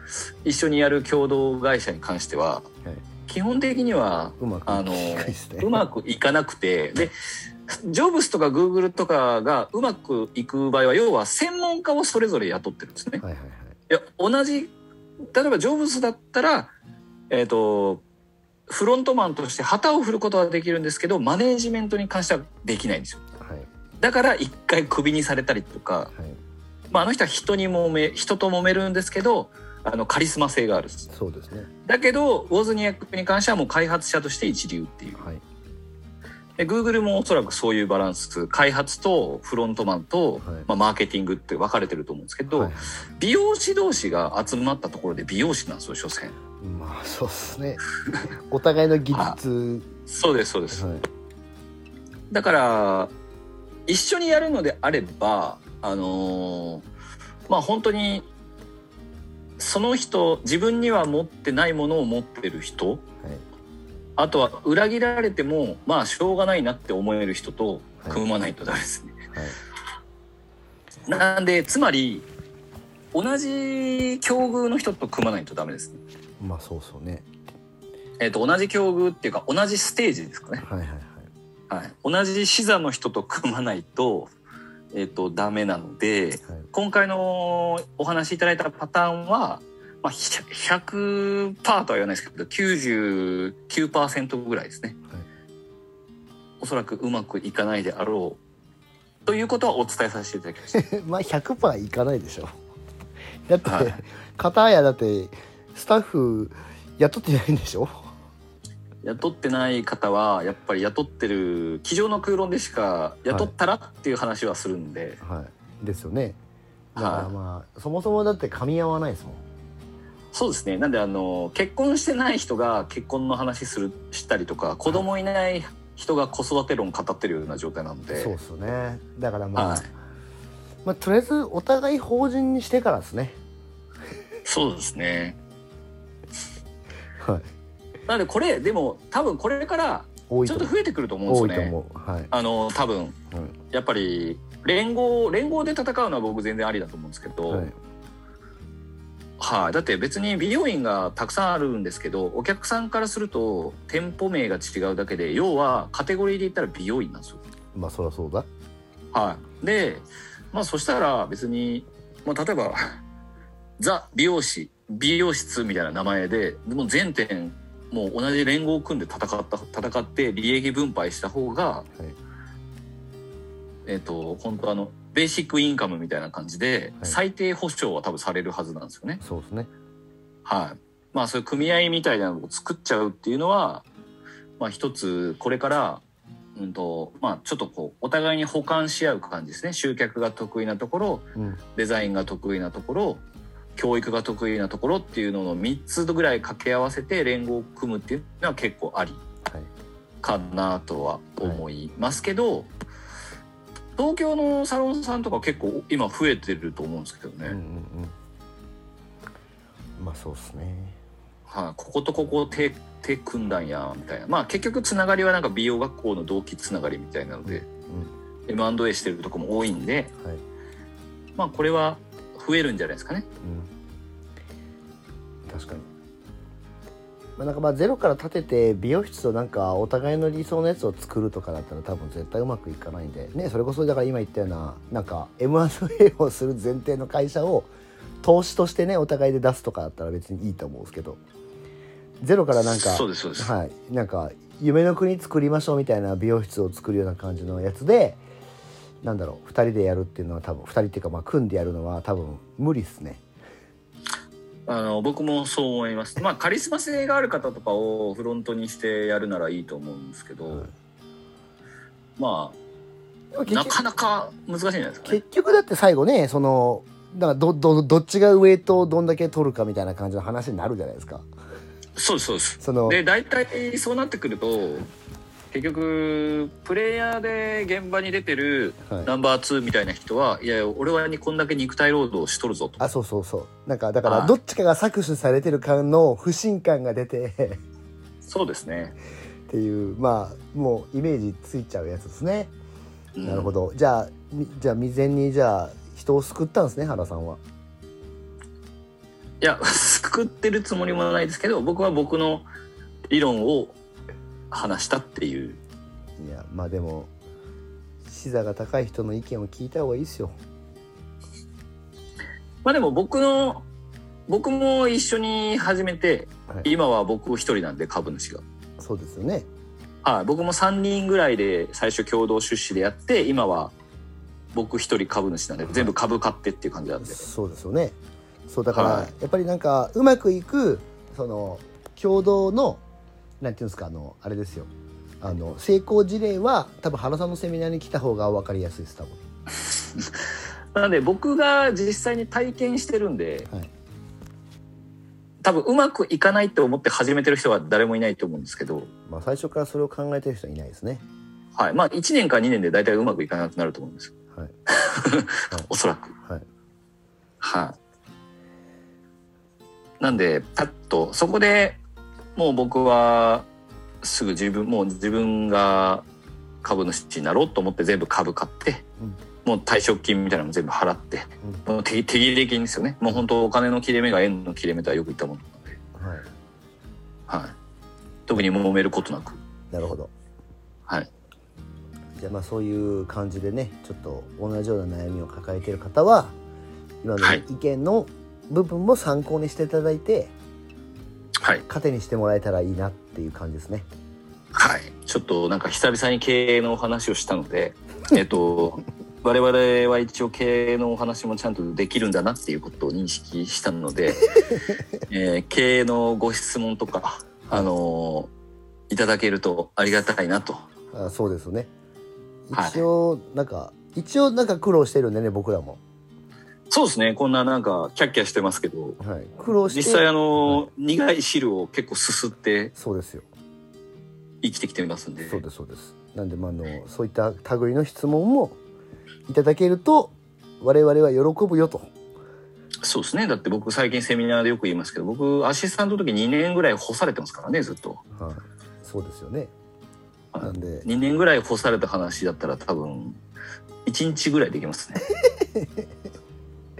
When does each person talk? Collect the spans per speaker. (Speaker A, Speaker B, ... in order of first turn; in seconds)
Speaker A: 0.4-2.7, 3.3-7.1, 7.7-13.2, 13.9-16.7, 17.3-18.0, 18.7-23.2, 24.0-26.1, 26.9-31.1, 31.8-35.2, 36.6-46.4, 49.1-49.4, 50.1-50.8, 52.3-53.1, 53.9-56.8, 57.5-58.3, 59.6-63.0, 64.2-69.2, 71.0-72.2, 73.1-76.0, 78.2-80.6, 81.7-84.3, 84.9-95.0, 96.6-98.4, 99.2-100.8, 103.6-104.0, 109.0-115.2, 117.0-117.3, 120.3-128.3, 129.5-129.9, 134.4-135.4, 138.1-141.8, 142.3-143.2, 143.7-147.7, 149.4-157.4, 159.1-163.0, 163.8-171.9, 173.8-179.2, 180.4-183.8, 184.6-186.0, 186.5-193.2, 193.8-199.2, 200.2-202.7, 204.0-207.6, 211.5-217.7, 218.5-220.1, 221.3-223.3, 242.5-243.5, 254.7-260.7, 262.2-262.6, 263.5-265.2, 272.0-274.9, 275.5-282.8, 284.0-284.4, 288.2-288.9, 293.1-293.5, 299.4-302.5, 303.1-303.8, 304.5-305.6, 312.6-313.6, 314.3-318.4, 320.0-323.7, 324.5-327.2, 328.7-329.1, 340.7-343.5, 345.4-348.9, 351.5-354.1, 354.7-356.1, 357.4-357.8, 360.0-361.8, 362.4-363.5, 364.0-366.0, 366.6-368.8, 369.4-375.8, 377.3-377.5, 378.3-379.4, 394.5-404.3, 405.1-408.3, 408.9-410.6, 412.5-412.8, 416.7-419.0, 419.6-422.7, 424.4-425.4, 432.8-438.0, 440.3-443.2, 443.8-445.0
Speaker B: 4.4-5.8, 13.2-13.8, 23.4-23.7, 31.1-31.7, 42.5-42.9, 46.6-47.9, 48.5-49.9, 50.7-51.0, 69.3-69.6, 76.4-77.2, 80.6-81.3, 100.7-102.5, 103.5-108.1, 115.2-116.4, 116.9-119.4, 128.1-129.9, 130.8-133.4, 137.2-137.5, 140.3-140.7, 141.3-142.3, 147.5-147.8, 157.7-158.5, 179.2-179.7, 191.3-191.6, 207.4-208.1, 210.0-211.0, 217.5-218.1, 223.4-223.7, 225.5-225.9, 227.4-237.7, 238.2-241.2, 242.2-248.2, 249.0-253.2, 263.3-263.8, 265.1-271.3, 272.6-273.0, 282.8-287.6, 289.5-292.5, 293.2-297.4, 306.2-307.1, 308.0-310.4, 318.8-319.5, 325.7-325.9, 327.0-328.0, 328.5-332.8, 333.4-339.2, 349.1-351.0, 375.9-376.3, 379.7-380.1, 382.1-386.3, 387.0-390.3, 391.7-393.9, 410.9-411.7, 412.5-415.8, 419.0-420.7, 422.8-423.3, 425.3-428.6, 429.3-431.9, 438.1-439.5, 440.4-440.9, 445.2-445.8